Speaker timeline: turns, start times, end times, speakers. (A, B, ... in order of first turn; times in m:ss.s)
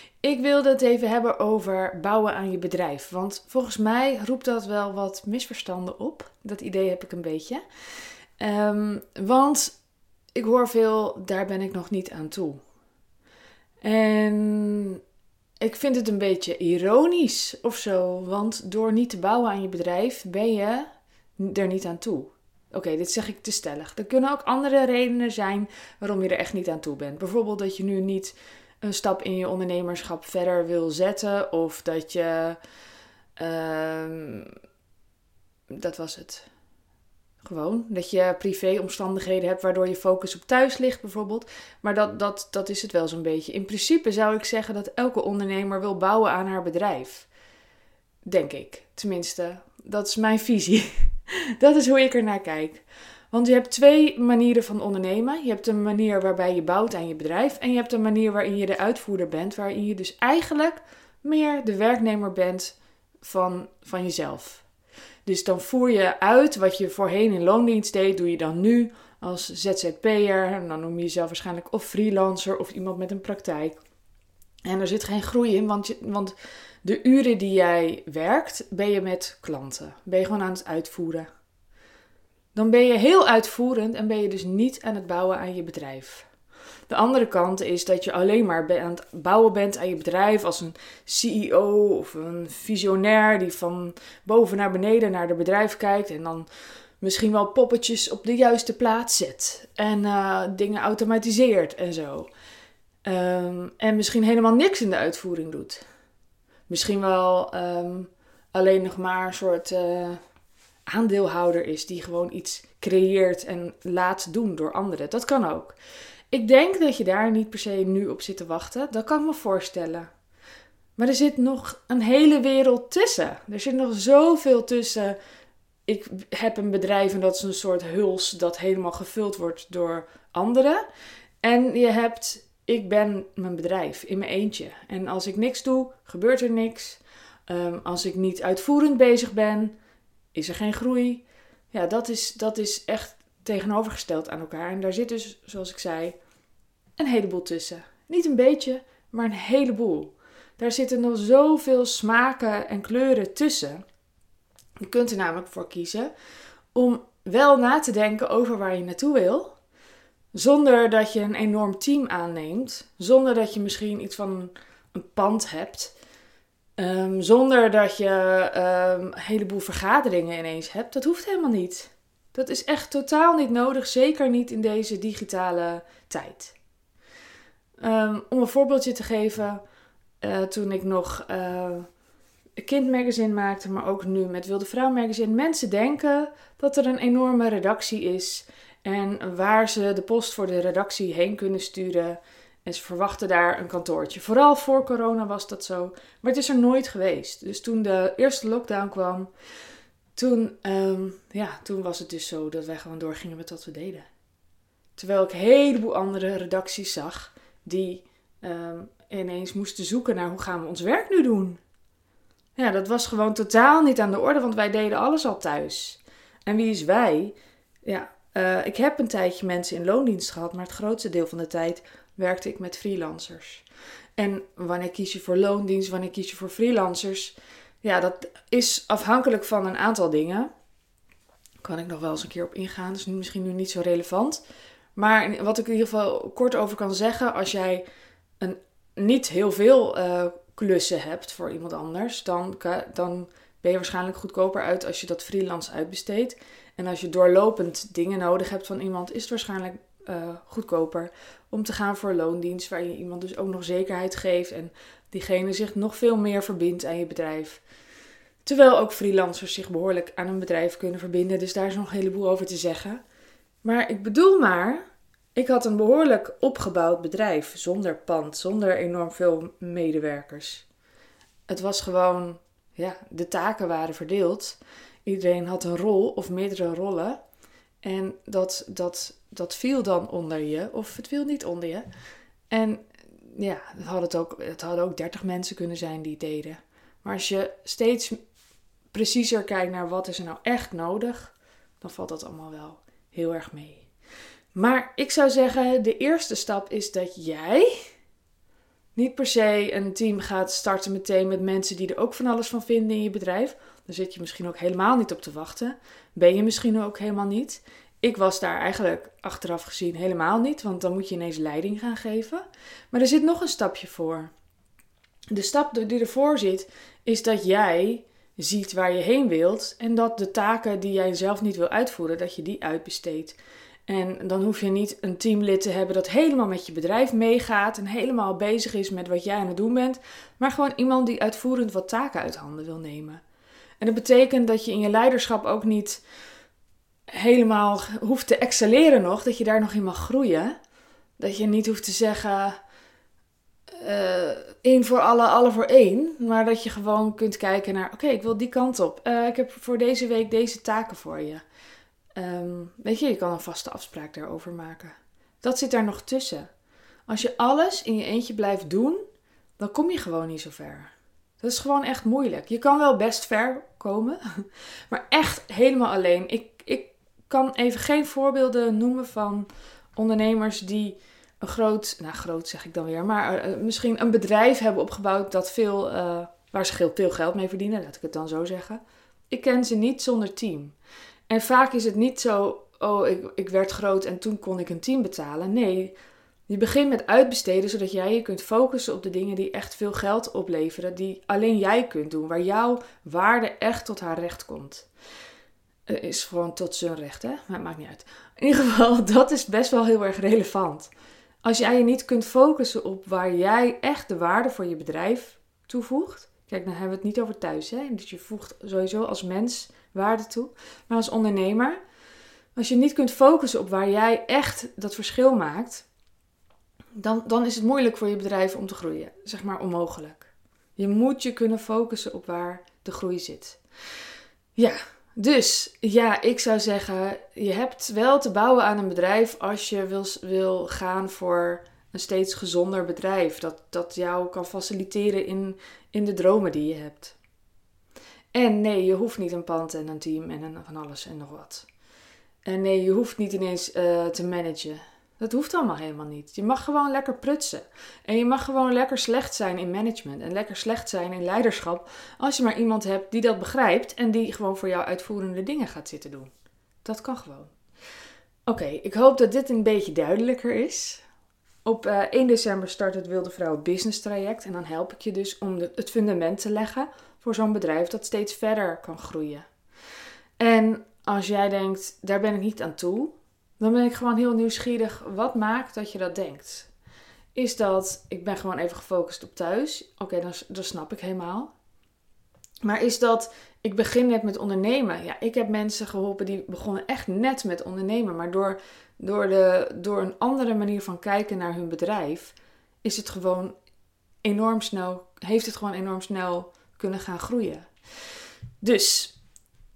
0:00.2-0:09.8 A
0:10.3-0:12.6 A
0:13.8-0:15.0 A
0:15.6-0:32.6 A
0:33.4-0:34.5 A
0:35.7-0:36.5 A
0:37.4-0:47.3 A
0:48.2-1:04.6 A
1:05.2-1:13.8 A
1:14.6-1:21.3 A
1:22.5-1:26.3 A
1:26.9-1:36.5 A
1:37.0-1:42.3 A
1:43.0-1:45.8 A
1:46.7-1:50.2 A
1:50.8-1:55.8 A
1:56.3-2:00.1 A
2:01.0-2:05.2 A
2:05.9-2:10.8 A
2:11.4-2:19.7 A
2:20.3-2:26.2 A
2:27.0-2:33.8 A
2:34.8-2:36.1 A
2:36.7-2:39.6 A
2:40.3-2:45.9 A
2:46.8-2:56.5 A
2:57.8-2:59.6 A
3:00.2-3:01.9 A
3:02.6-3:19.3 A
3:20.1-3:24.0 A
3:25.0-3:31.6 A
3:32.6-3:43.6 A
3:44.2-3:50.5 A
3:51.6-3:54.4 A
3:55.0-3:57.8 A
3:58.4-4:17.6 A
4:18.4-4:23.0 A
4:23.6-4:24.8 A
4:25.3-4:30.6 A
4:31.5-4:37.2 A
4:37.8-4:41.9 A
4:42.5-4:48.2 A
4:48.9-4:53.9 A
4:54.5-4:57.9 A
4:59.0-5:14.3 A
5:15.3-5:33.2 A
5:33.8-5:36.0 A
5:37.1-5:40.6 A
5:41.2-5:42.6 A
5:43.8-5:51.4 A
5:52.1-5:56.5 A
5:57.1-5:59.0 A
5:59.6-6:20.8 A
6:21.3-6:25.9 A
6:26.5-6:34.9 A
6:35.9-6:40.9 A
6:41.4-6:51.8 A
6:52.6-6:55.8 A
6:56.9-7:03.6 A
7:04.6-7:17.2 A
7:18.3-7:21.7 A
7:22.4-7:36.3 A
7:36.8-7:37.6 A
7:38.4-7:41.0 A
7:41.6-7:49.5 A
7:50.4-7:56.7 A
7:57.3-8:01.5 A
8:02.6-8:13.5 A
8:14.2-8:19.1 A